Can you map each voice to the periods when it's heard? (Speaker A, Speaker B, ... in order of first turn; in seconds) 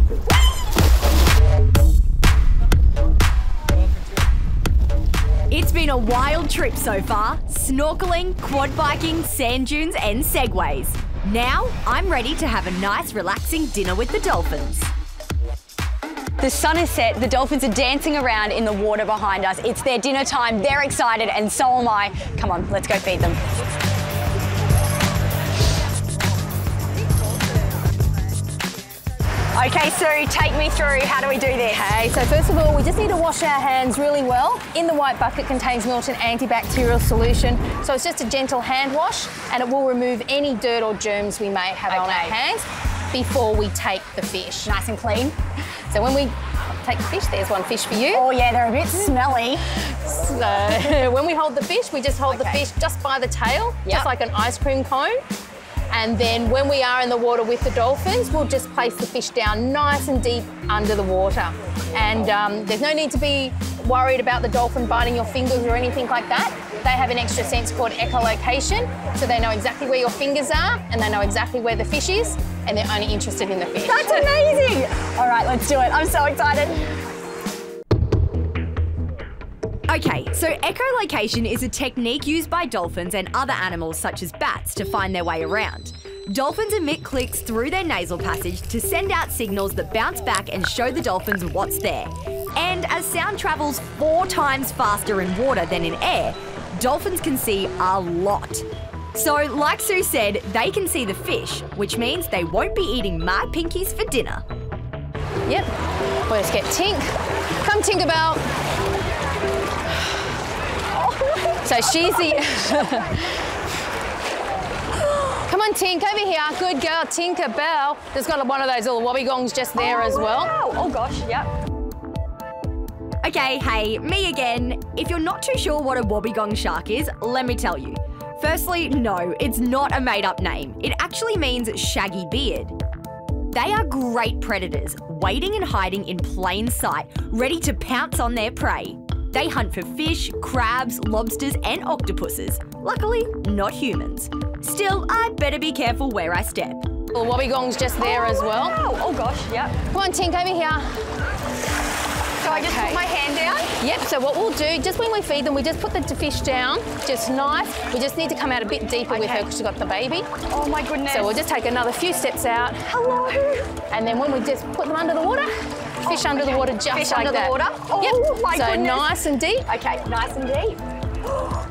Speaker A: 5.5-14.9, 79.9-104.4, 123.2-132.8, 133.5-146.8
Speaker B: 16.4-23.4, 29.5-31.9, 41.9-42.4, 44.6-45.4, 48.1-49.7, 52.3-52.6, 73.8-76.9, 111.0-112.4, 119.8-121.5, 148.0-149.8, 152.4-153.7, 159.1-159.5, 160.5-161.4, 162.8-163.8, 166.0-169.1, 169.7-170.8
Speaker C: 31.7-44.7, 45.9-48.3, 49.8-55.2, 55.9-74.3, 106.3-107.0, 107.6-108.4, 111.6-113.3, 115.4-120.5, 147.1-148.8, 149.9-150.9, 152.5-153.0, 153.8-160.3, 161.1-162.8, 163.9-165.5, 166.0-169.7